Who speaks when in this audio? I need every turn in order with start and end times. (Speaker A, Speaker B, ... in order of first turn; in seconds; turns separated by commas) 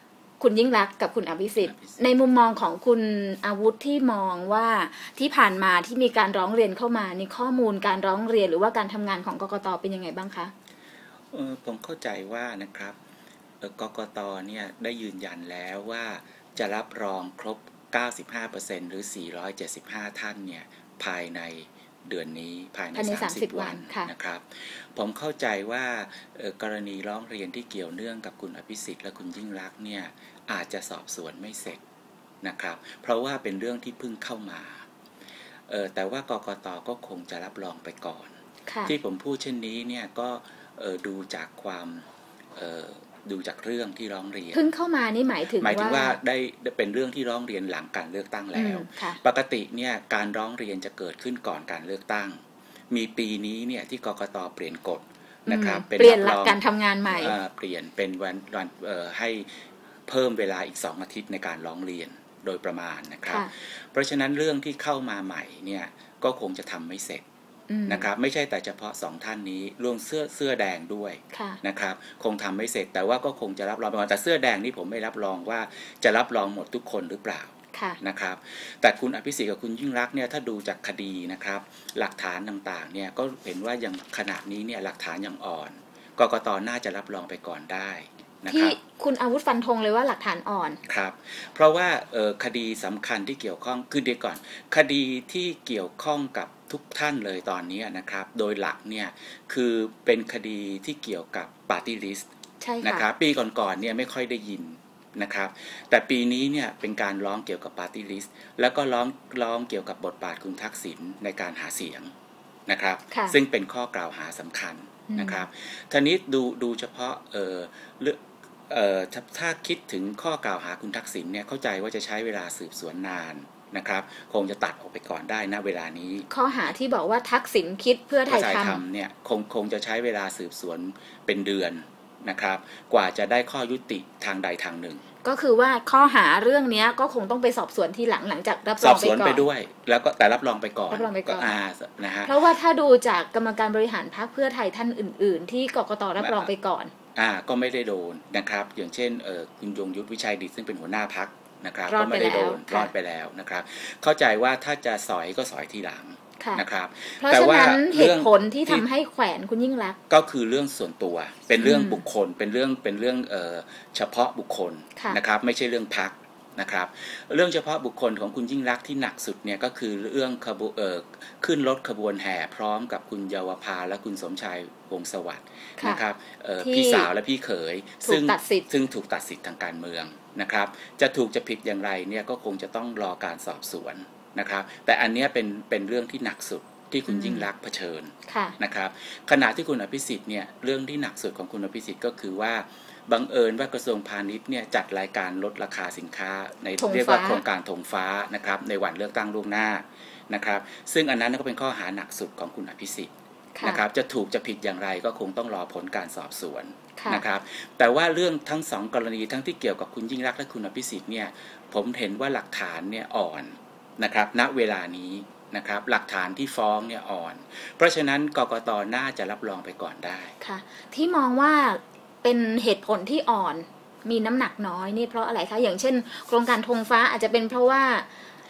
Speaker A: 0.4-10.5, Speaker B: 11.3-13.0, Speaker B: 13.6-31.8, Speaker A: 23.0-24.1, Speaker B: 32.4-34.8, Speaker B: 35.7-38.3, Speaker A: 38.7-38.9, Speaker B: 38.9-42.0, Speaker B: 42.6-44.7, Speaker A: 44.5-46.2, Speaker B: 45.6-52.4, Speaker A: 48.5-49.2, Speaker B: 52.9-56.6, Speaker A: 55.5-57.4, Speaker B: 57.1-67.2, Speaker A: 67.7-68.1, Speaker B: 67.9-88.8, Speaker A: 71.3-71.6, Speaker A: 77.7-78.0, Speaker A: 88.5-90.8, Speaker B: 90.8-102.3, Speaker A: 102.6-103.0, Speaker B: 102.8-112.1, Speaker B: 112.7-126.3, Speaker A: 113.1-113.4, Speaker A: 115.1-115.4, Speaker A: 126.3-128.8, Speaker B: 128.3-135.0, Speaker A: 135.2-139.5, Speaker B: 138.8-142.3, Speaker A: 140.9-141.5, Speaker A: 142.2-146.9, Speaker B: 146.2-146.5, Speaker B: 147.2-158.8, Speaker A: 151.9-152.9, Speaker A: 157.2-160.0, Speaker B: 160.1-203.1, Speaker A: 161.6-162.0, Speaker A: 176.6-177.1, Speaker A: 178.0-178.7, Speaker A: 187.1-187.5, Speaker A: 188.3-188.6, Speaker A: 196.8-197.4, Speaker A: 203.6-203.8, Speaker B: 203.6-220.3, Speaker A: 207.0-207.2, Speaker A: 220.4-228.1